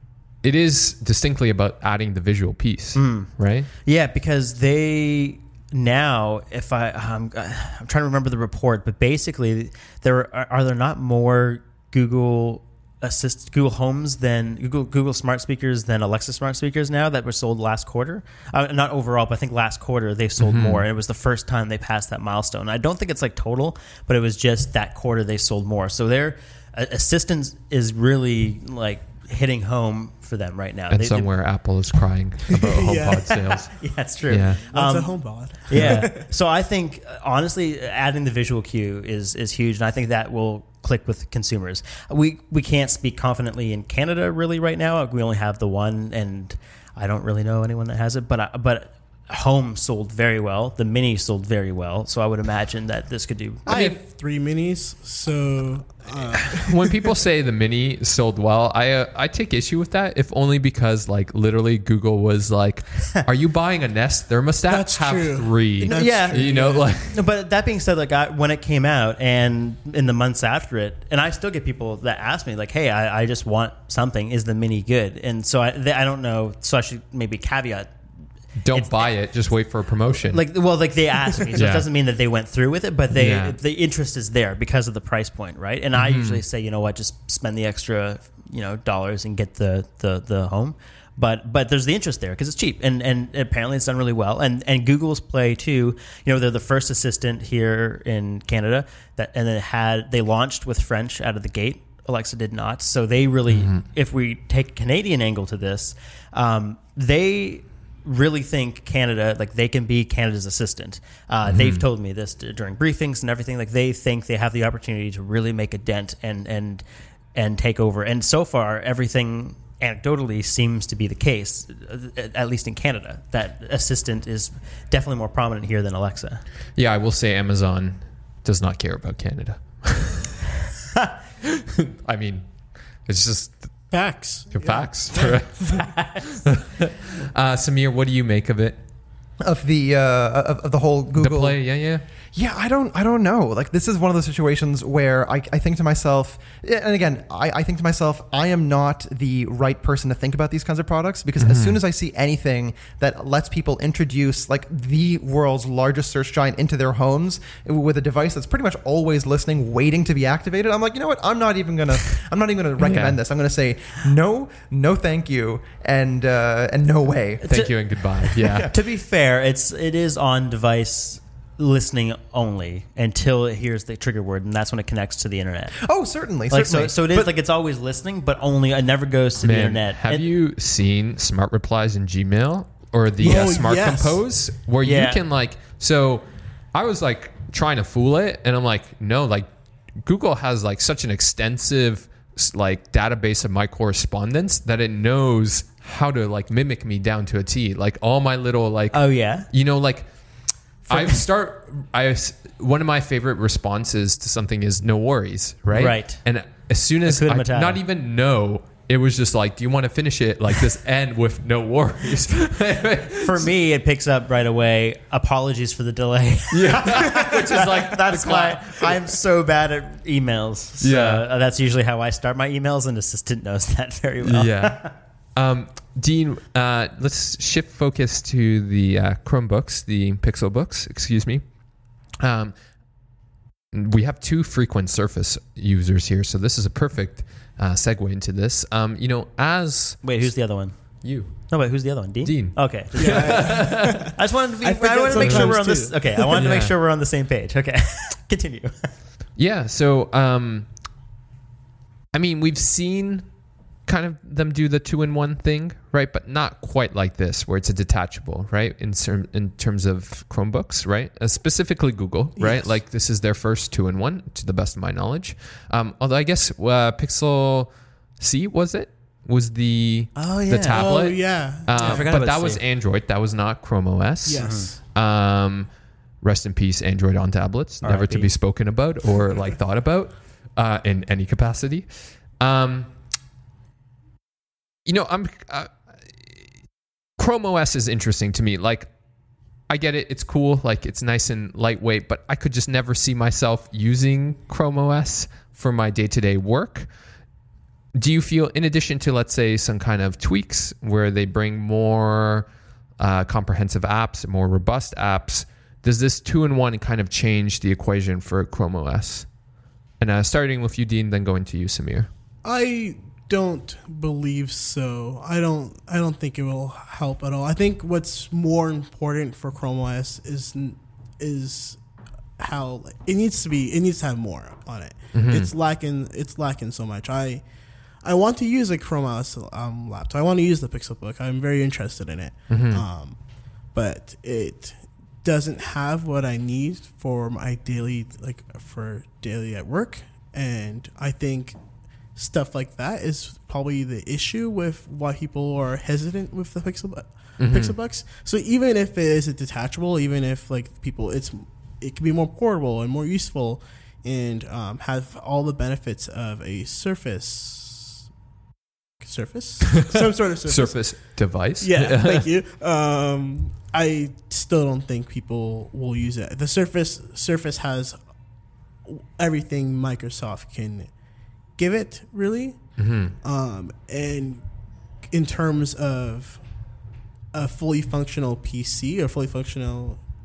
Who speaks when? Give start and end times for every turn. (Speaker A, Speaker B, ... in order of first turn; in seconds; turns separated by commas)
Speaker A: 0.4-3.7, Speaker B: 2.9-31.3, Speaker A: 20.4-20.8, Speaker A: 30.9-34.6, Speaker C: 32.6-33.4, Speaker B: 33.7-53.6, Speaker C: 34.5-36.3, Speaker A: 53.6-54.0, Speaker C: 53.6-57.1, Speaker A: 56.5-67.2, Speaker C: 64.7-66.9, Speaker B: 65.9-77.9, Speaker A: 78.6-80.4, Speaker B: 78.7-79.1, Speaker B: 80.3-116.8, Speaker A: 81.5-81.9, Speaker A: 83.1-83.6, Speaker A: 85.9-86.4, Speaker A: 103.5-103.8, Speaker A: 111.4-111.8, Speaker B: 117.3-126.4, Speaker A: 126.8-130.3, Speaker A: 131.8-132.5, Speaker A: 133.0-133.9, Speaker C: 133.9-135.9, Speaker A: 134.5-138.8, Speaker D: 134.6-134.9, Speaker B: 135.8-136.3, Speaker D: 139.4-141.7, Speaker A: 141.2-142.0, Speaker D: 142.3-167.5, Speaker A: 151.4-151.8, Speaker A: 162.8-163.2, Speaker B: 167.4-175.8, Speaker A: 167.5-168.7, Speaker D: 168.4-168.7, Speaker D: 175.8-177.3, Speaker B: 176.5-180.2, Speaker A: 179.4-189.5, Speaker C: 183.2-184.2, Speaker B: 184.8-185.2, Speaker A: 190.0-213.5, Speaker B: 198.9-199.5, Speaker B: 200.9-201.2, Speaker B: 205.7-206.2, Speaker B: 207.1-207.8, Speaker B: 213.1-224.9, Speaker A: 216.5-219.1, Speaker A: 220.8-221.2, Speaker A: 224.2-231.5, Speaker A: 232.2-232.5, Speaker A: 233.7-244.2, Speaker B: 240.0-248.9, Speaker C: 242.9-246.5, Speaker A: 245.1-246.7, Speaker A: 249.4-250.7, Speaker A: 252.1-253.3, Speaker A: 253.9-282.9, Speaker C: 262.4-262.7, Speaker B: 270.1-270.9, Speaker C: 270.7-272.1, Speaker B: 271.8-272.6, Speaker C: 274.2-274.8, Speaker B: 274.3-274.7, Speaker B: 277.8-278.3, Speaker A: 284.9-285.7, Speaker A: 287.2-288.9, Speaker A: 289.7-296.9, Speaker A: 297.9-302.5, Speaker A: 303.0-309.3, Speaker A: 310.0-312.1, Speaker C: 312.4-321.8, Speaker C: 322.4-327.5, Speaker A: 325.1-325.5, Speaker C: 328.0-341.6, Speaker A: 332.5-332.8, Speaker C: 342.1-358.0, Speaker A: 347.4-347.8, Speaker C: 359.0-368.0, Speaker A: 360.4-362.3, Speaker C: 368.8-370.9, Speaker C: 371.5-374.4, Speaker A: 372.8-373.1, Speaker C: 375.1-376.4, Speaker C: 377.3-380.0